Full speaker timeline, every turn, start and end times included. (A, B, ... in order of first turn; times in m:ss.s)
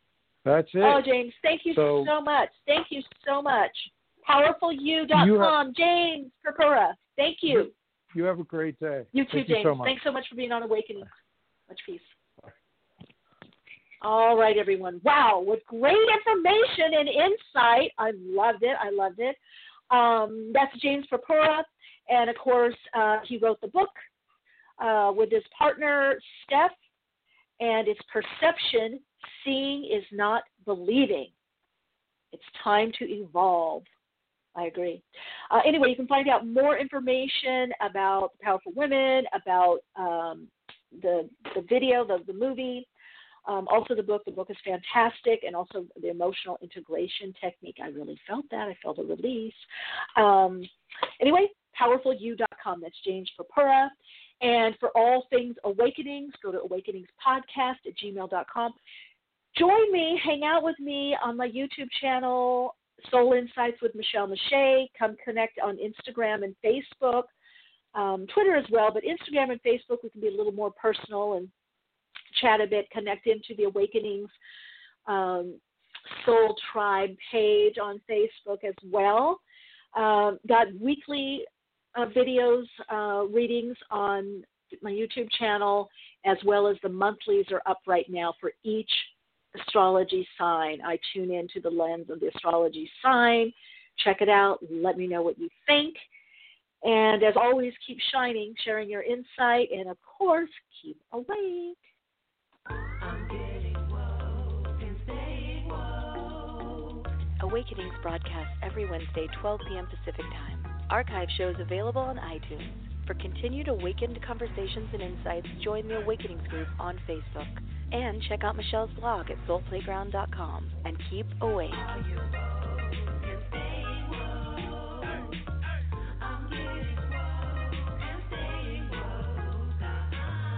0:00.4-0:01.1 A
0:00.8-0:07.7 B
0:01.7-0:02.1 A
0:05.1-0:05.6 A
0:07.5-0:10.0 A
0:09.1-0:11.1 B
0:11.7-0:12.1 B
0:14.0-0:19.4 B
0:19.9-0:23.9 B
0:24.8-0:26.7 B
0:27.6-0:31.3 B
0:32.3-0:33.8 B
0:34.6-0:42.9 B
0:43.5-0:49.6 B
0:50.2-0:58.8 B
0:59.5-1:07.3 B
1:08.0-1:11.5 B
1:12.3-1:14.3 B
1:15.1-1:19.4 B
1:20.0-1:36.0 B
1:36.8-1:41.8 B
1:43.1-1:43.4 B
1:44.8-1:45.6 B
1:47.4-2:02.1 C
2:03.5-2:04.2 B
2:08.5-2:09.1 B